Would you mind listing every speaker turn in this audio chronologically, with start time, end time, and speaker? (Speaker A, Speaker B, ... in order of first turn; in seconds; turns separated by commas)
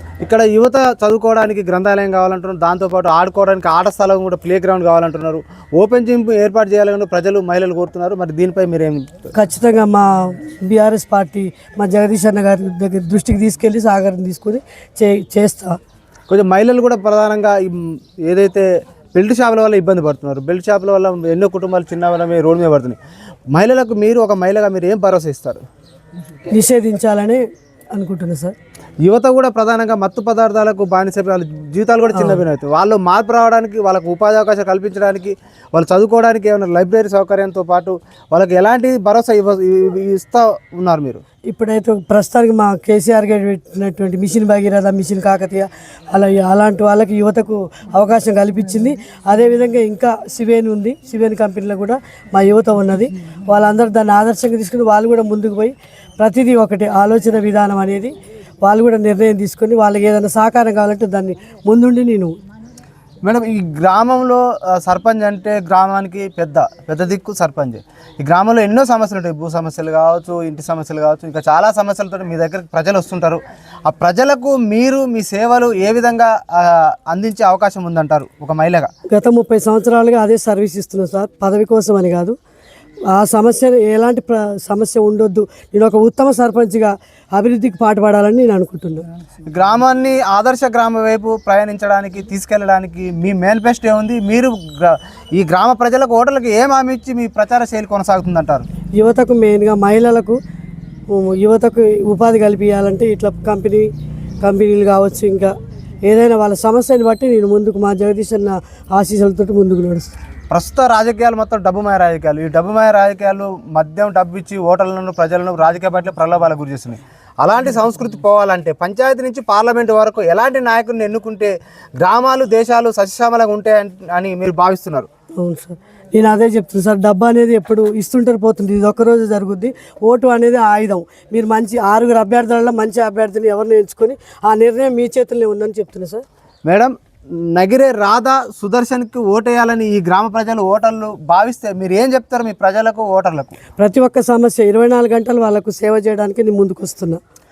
Speaker A: 0.2-9.3, Speaker B: 9.3-15.8, Speaker A: 16.3-23.0, Speaker A: 23.5-25.6, Speaker B: 26.5-27.4, Speaker B: 27.9-28.5, Speaker A: 29.0-41.2, Speaker B: 32.1-32.4, Speaker B: 41.5-62.3, Speaker A: 63.2-78.9, Speaker B: 79.1-82.3, Speaker B: 83.1-89.0, Speaker A: 89.5-98.7, Speaker B: 99.0-100.4, Speaker B: 101.1-103.9, Speaker B: 104.4-105.5, Speaker B: 106.0-110.2, Speaker A: 110.5-125.1, Speaker B: 125.4-136.2, Speaker A: 136.7-143.6, Speaker B: 143.8-147.2